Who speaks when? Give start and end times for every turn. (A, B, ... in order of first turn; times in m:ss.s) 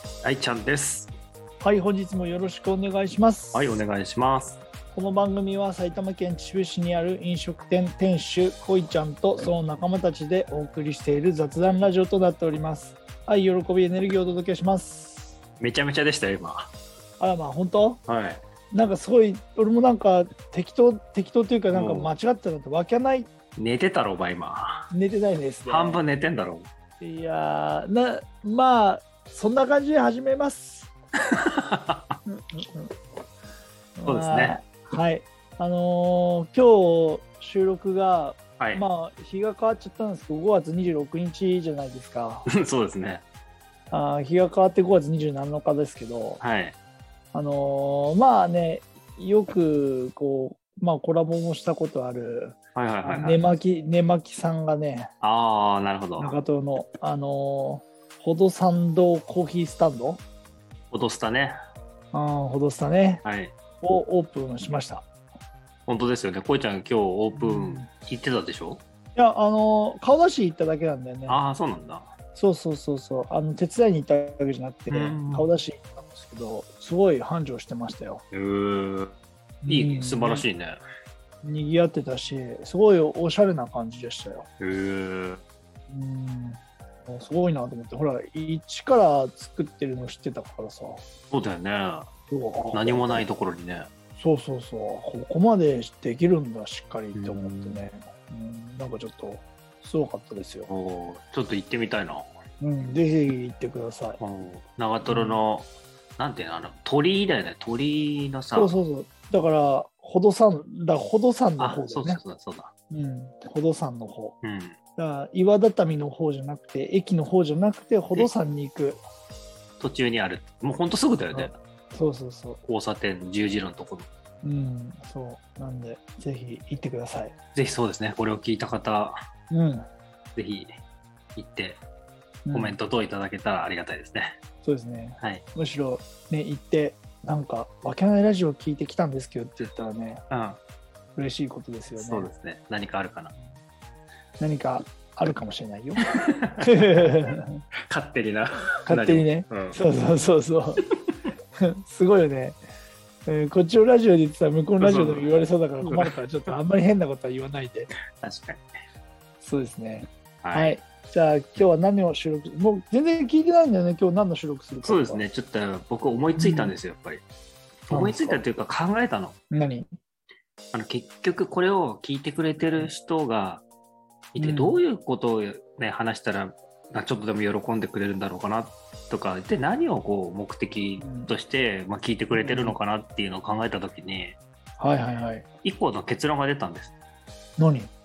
0:00.2-0:01.1 A
0:01.6-0:03.7 B
0:03.5-0:04.6 A
0:04.9-0:15.4 B
0:15.6-0:16.7 A
0:17.2-0:18.0 B
0:18.1-0:18.4 A
0:18.7-0:23.3 B
0:21.7-0:22.1 A
0:23.6-0:24.9 A
0:24.9-0:26.0 B
0:25.6-0:26.7 A
0:27.0-0:30.9 B
0:31.3-0:32.1 A
0:32.3-0:32.9 B
0:34.0-0:42.5 B
0:34.1-0:34.6 A
0:42.5-0:43.2 A
0:43.9-0:46.4 B
0:46.4-0:46.8 A
0:47.3-0:55.1 B
0:52.8-0:53.4 A
0:55.2-0:56.3 A
0:56.2-1:00.2 B
1:00.9-1:01.6 A
1:02.1-1:03.2 B
1:03.2-1:03.5 A
1:03.8-1:05.1 B
1:05.9-1:08.8 A
1:07.4-1:07.9 B
1:09.2-1:11.4 B
1:11.3-1:12.1 A
1:12.4-1:18.2 B
1:14.9-1:15.5 A
1:18.3-1:20.8 A
1:19.6-1:20.5 B
1:21.4-1:24.5 B
1:24.6-1:25.4 A
1:25.9-1:31.0 B
1:31.3-1:32.1 A
1:32.3-1:33.3 B
1:32.7-1:33.9 A
1:34.2-1:40.7 B
1:37.2-1:37.8 A
1:40.7-1:42.3 A
1:42.6-1:44.2 B
1:44.2-1:48.7 A
1:45.0-1:45.4 B
1:48.5-1:52.2 B
1:51.6-1:52.7 A
1:52.9-1:54.4 B
1:54.4-1:54.8 A
1:55.0-1:59.0 B
1:59.8-2:01.6 A
2:01.3-2:02.6 B
2:02.7-2:04.1 A
2:04.4-2:07.3 B
2:07.6-2:09.2 A
2:09.5-2:09.9 B
2:10.4-2:10.7 A
2:11.4-2:11.8 A
2:12.5-2:12.8 B
2:12.5-2:14.4 A
2:14.6-2:20.2 B
2:20.3-2:20.6 A
2:21.2-2:22.3 B
2:22.0-2:23.3 A
2:24.4-2:26.1 B
2:26.0-2:27.1 A
2:26.6-2:27.6 B
2:27.9-2:29.8 A
2:28.9-2:30.9 B
2:31.6-2:32.6 B
2:33.3-2:37.9 B
2:34.8-2:35.3 A
2:35.8-2:36.1 A
2:38.2-2:38.7 A
2:39.4-2:45.2 B
2:40.4-2:40.8 A
2:44.8-2:47.2 A
2:46.4-2:46.8 B
2:47.9-2:49.4 A
2:47.9-2:48.4 B
2:49.5-2:49.9 B
2:50.7-2:53.6 A
2:54.3-3:04.4 A
2:54.4-2:54.8 B
3:01.0-3:01.3 B
3:02.3-3:02.8 B
3:04.8-3:05.4 B
3:05.6-3:06.9 A
3:07.6-3:07.9 B